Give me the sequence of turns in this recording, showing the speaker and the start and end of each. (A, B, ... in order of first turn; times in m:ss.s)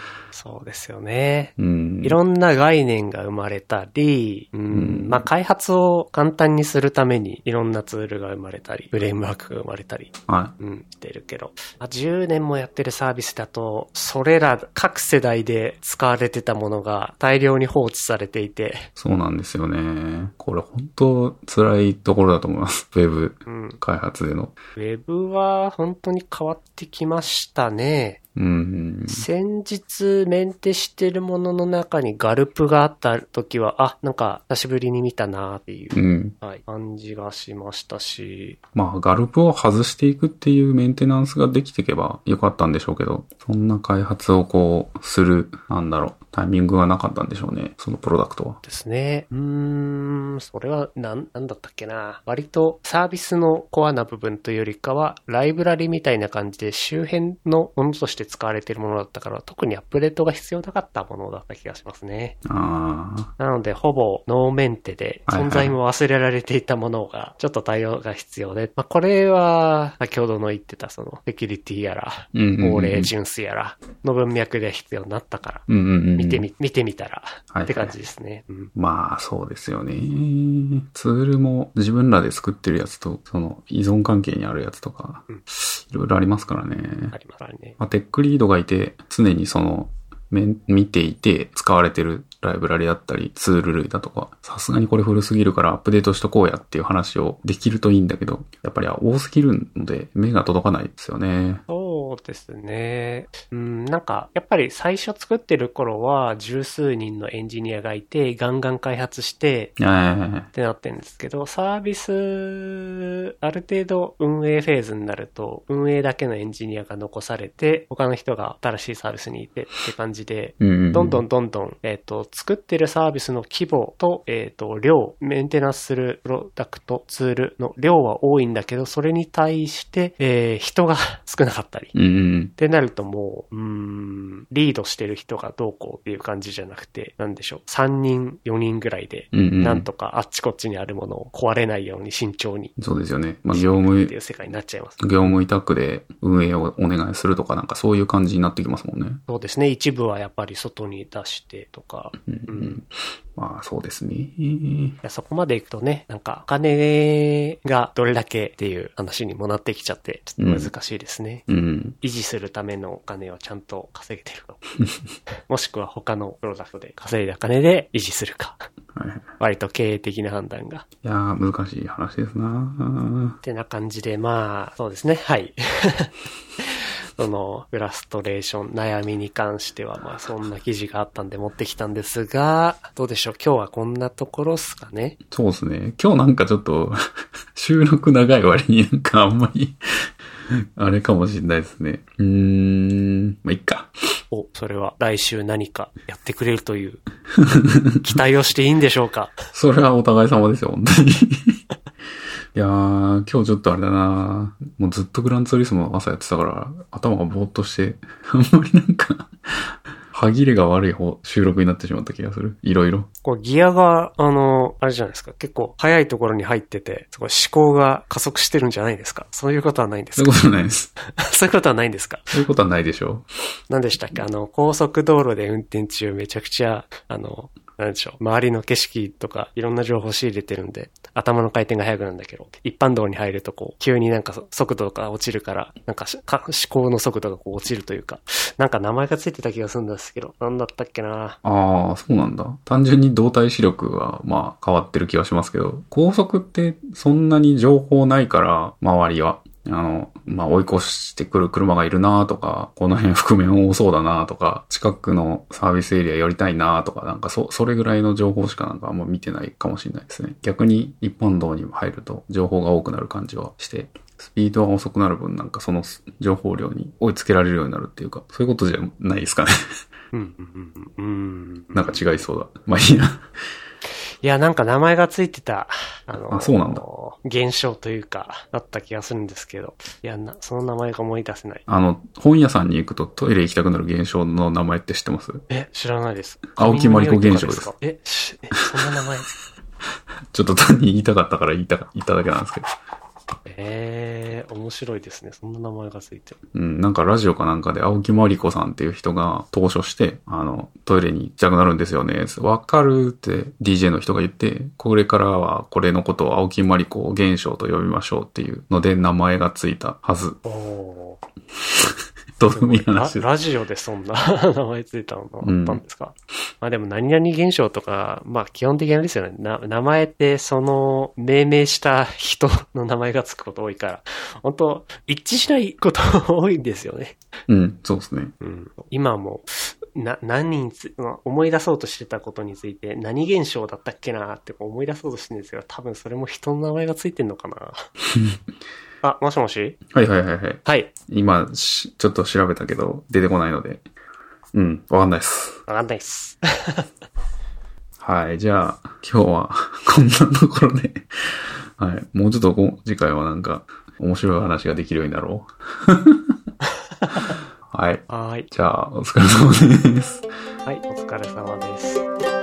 0:00.3-0:18.9 A
0:01.6-0:02.2 B
0:04.7-0:05.2 B
0:10.3-0:10.5 B
0:19.0-0:24.6 B
0:23.5-0:23.8 A
0:24.8-0:28.2 A
0:28.4-0:29.3 B
0:29.1-0:38.6 A
0:35.9-0:36.3 B
0:38.8-0:48.6 B
0:48.6-1:02.4 A
1:02.4-1:03.3 B
1:03.4-1:15.7 A
1:05.3-1:05.8 B
1:12.3-1:13.1 B
1:15.7-1:16.5 B
1:16.2-1:18.7 A
1:17.5-1:18.0 B
1:18.8-1:27.2 B
1:27.1-1:27.8 A
1:27.8-1:41.6 B
1:41.7-1:49.8 A
1:49.8-1:50.5 B
1:50.5-2:11.9 A
2:00.6-2:01.2 B
2:11.9-2:12.5 B
2:12.6-2:22.7 A
2:19.3-2:19.9 B
2:22.8-2:24.1 B
2:23.5-2:25.3 A
2:25.0-2:29.2 B
2:29.3-2:32.8 A
2:32.3-2:35.0 B
2:35.0-2:41.5 A
2:40.4-2:40.7 B
2:41.5-2:42.0 B
2:42.0-2:44.6 A
2:45.5-2:48.6 A
2:49.0-2:49.3 B
2:49.4-2:50.8 A
2:51.0-2:53.4 B
2:53.4-3:05.2 A
3:05.3-3:07.0 B
3:07.6-3:09.8 B
3:10.8-3:13.9 B
3:14.3-3:17.0 A
3:17.4-3:18.2 B
3:18.0-3:19.4 A
3:19.5-3:21.6 B
3:22.6-3:33.1 B
3:33.2-3:40.3 A
3:40.2-3:40.9 B
3:41.1-3:42.4 A
3:42.3-3:43.3 B
3:43.7-4:01.4 A
4:01.4-4:29.5 B
4:30.1-4:32.0 A
4:31.7-4:33.2 B
4:34.2-4:41.6 A
4:36.1-4:36.8 B
4:41.7-4:45.4 B
4:45.5-4:49.3 A
4:46.6-4:47.7 B
4:50.3-4:52.7 B
4:53.5-4:56.4 A
4:56.5-5:10.4 B
5:10.4-5:11.2 A
5:11.7-5:13.3 B
5:12.5-5:27.2 A
5:15.4-5:15.8 B
5:27.5-5:28.3 B
5:28.4-5:37.8 A
5:38.1-5:38.4 B
5:39.0-5:39.8 A
5:39.9-5:43.8 B
5:40.6-5:40.9 A
5:44.5-5:45.6 B
5:45.7-5:46.9 A
5:48.0-5:56.4 B
5:57.0-5:57.4 A
5:57.7-6:00.2 B
5:58.1-5:58.5 A
6:00.7-6:02.0 A